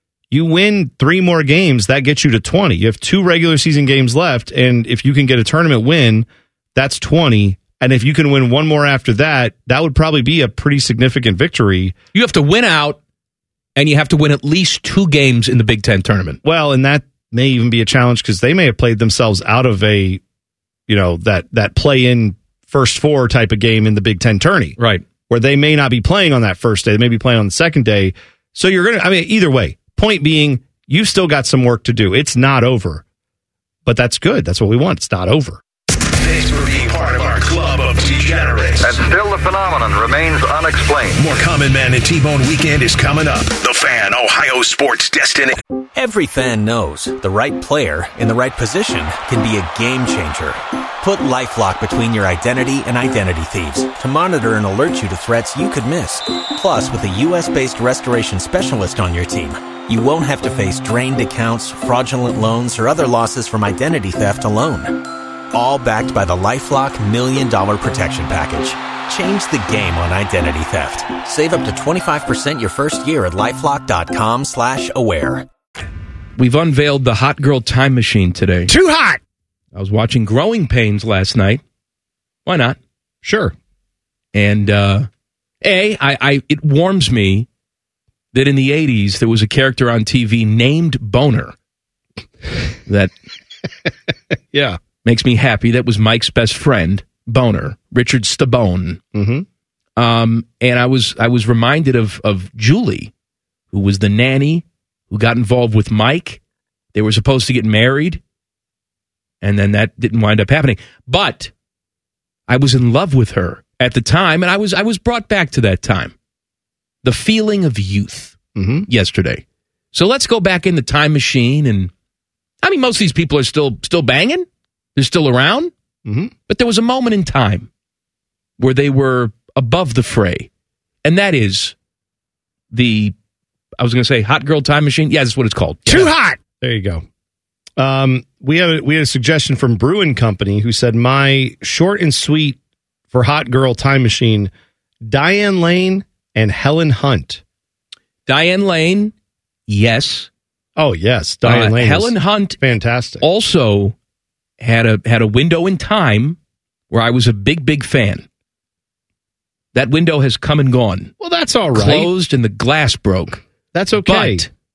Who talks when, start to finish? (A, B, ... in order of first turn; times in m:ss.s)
0:00.3-0:12.0 A
0:12.1-0:13.0 B
0:13.8-0:16.4 B
0:16.4-0:20.2 A
0:20.9-0:24.8 A
0:24.8-0:25.0 B
0:25.3-0:33.0 A
0:33.8-0:35.6 A
0:36.2-0:39.0 C
0:38.8-0:41.2 D
0:41.2-0:45.6 C
0:46.0-1:15.5 E
1:16.4-1:18.7 B
1:18.7-1:19.2 A
1:19.7-1:21.6 B
1:22.5-1:22.8 B
1:23.2-1:23.6 A
1:24.3-1:25.1 B
1:25.6-1:27.5 B
1:28.3-1:31.5 B
1:34.5-1:34.8 A
1:35.0-1:39.0 B
1:39.1-1:39.5 A
1:40.0-1:43.1 B
1:43.7-1:46.4 B
1:46.9-1:48.2 B
1:49.4-1:51.5 B
1:52.5-1:56.1 B
1:57.0-2:01.9 B
1:58.6-1:58.9 A
2:02.6-2:05.7 B
2:06.1-2:06.3 A
2:06.5-2:07.7 B
2:08.6-2:10.5 B
2:11.0-2:11.7 B
2:12.7-2:13.1 B
2:13.8-2:16.1 B
2:15.9-2:17.0 A
2:17.8-2:22.6 A
2:23.1-2:24.5 A
2:25.0-2:27.4 A
2:28.3-2:29.1 B
2:29.7-2:30.3 B
2:30.8-2:33.2 A
2:31.4-2:32.6 B
2:33.2-2:34.0 B
2:34.6-2:36.4 B
2:36.9-2:38.2 B
2:39.7-2:41.1 B
2:41.2-2:42.1 A
2:41.7-2:43.4 B
2:43.7-2:44.5 A
2:44.0-2:44.5 B